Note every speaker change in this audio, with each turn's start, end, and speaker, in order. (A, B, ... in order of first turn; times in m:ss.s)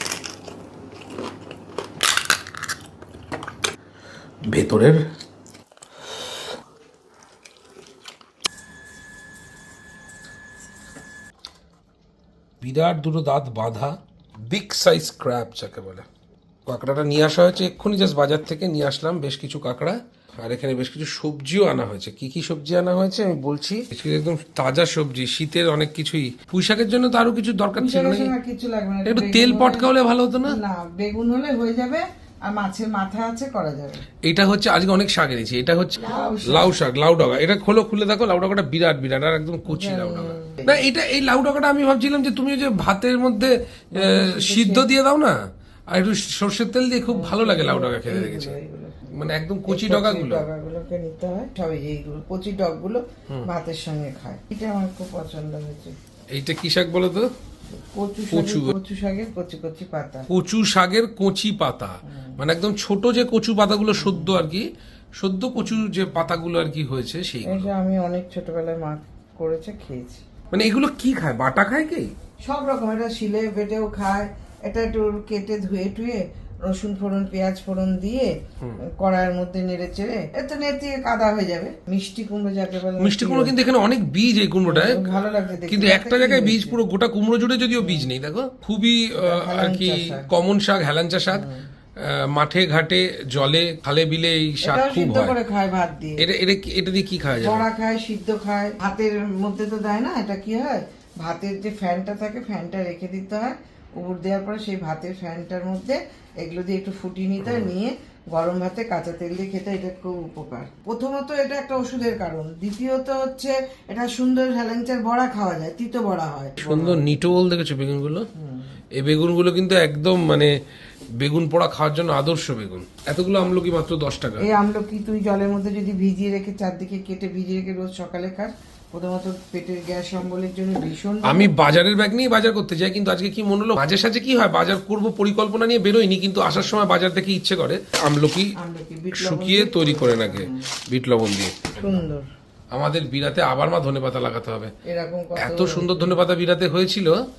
0:04.4-0:05.1 A
0:12.6-0:16.1 A
0:16.6-0:28.3 A
0:27.7-0:29.9 B
0:29.0-0:30.6 A
0:30.4-0:34.0 B
0:34.2-0:45.4 A
0:36.0-0:36.8 B
0:39.7-0:40.8 B
0:43.9-0:44.9 B
0:45.9-0:48.6 A
0:47.1-0:56.0 B
0:49.1-0:50.5 A
0:56.3-0:57.3 A
0:57.9-1:00.3 B
0:58.3-0:58.7 A
1:00.3-1:07.7 A
1:07.4-1:10.2 B
1:10.5-1:12.1 A
1:12.4-1:23.5 B
1:23.0-1:35.4 A
1:24.6-1:26.8 B
1:27.8-1:28.1 B
1:29.2-1:30.3 B
1:31.3-1:31.6 B
1:34.6-1:36.2 B
1:36.2-1:37.6 A
1:37.4-1:57.0 B
1:56.6-1:58.3 A
1:58.4-1:58.7 B
1:58.9-2:00.6 A
2:01.2-2:04.5 A
2:04.4-2:11.5 B
2:11.2-2:18.5 A
2:18.6-2:20.7 B
2:19.1-2:22.0 A
2:21.8-2:22.3 B
2:22.7-2:24.7 A
2:24.8-2:26.1 B
2:25.4-2:27.2 A